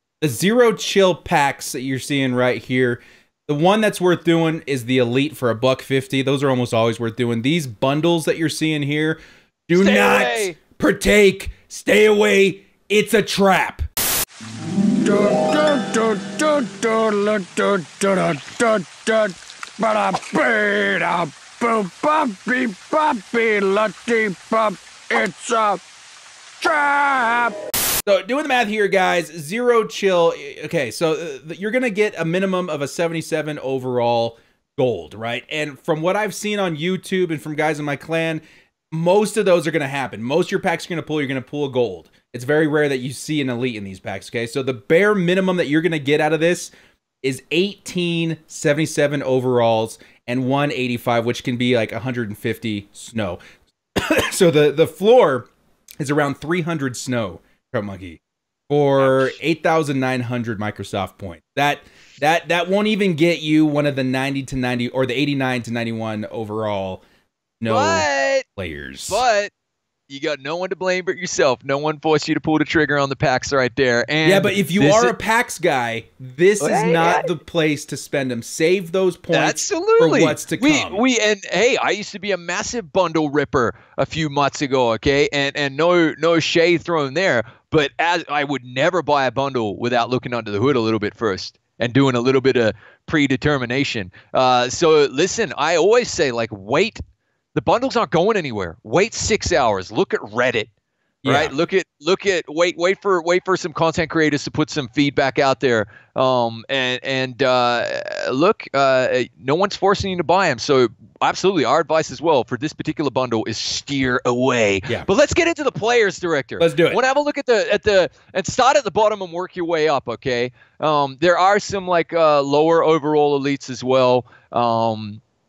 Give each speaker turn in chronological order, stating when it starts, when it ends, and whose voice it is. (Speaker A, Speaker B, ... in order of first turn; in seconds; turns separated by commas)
Speaker A: 0.2-13.9, Speaker B: 9.8-10.6, Speaker C: 15.2-18.7, Speaker C: 19.9-20.4, Speaker C: 20.9-21.2, Speaker C: 21.9-24.6, Speaker C: 25.2-25.7, Speaker C: 26.7-27.5, Speaker A: 28.1-53.4, Speaker A: 54.0-55.5, Speaker A: 56.0-67.0, Speaker B: 59.0-59.4, Speaker A: 67.6-69.2, Speaker B: 67.7-68.5, Speaker B: 69.1-69.5, Speaker B: 70.1-75.1, Speaker A: 74.2-81.0, Speaker B: 76.6-77.3, Speaker B: 79.3-97.0, Speaker B: 97.5-100.7, Speaker A: 101.2-101.5, Speaker B: 101.2-125.2, Speaker A: 116.6-117.0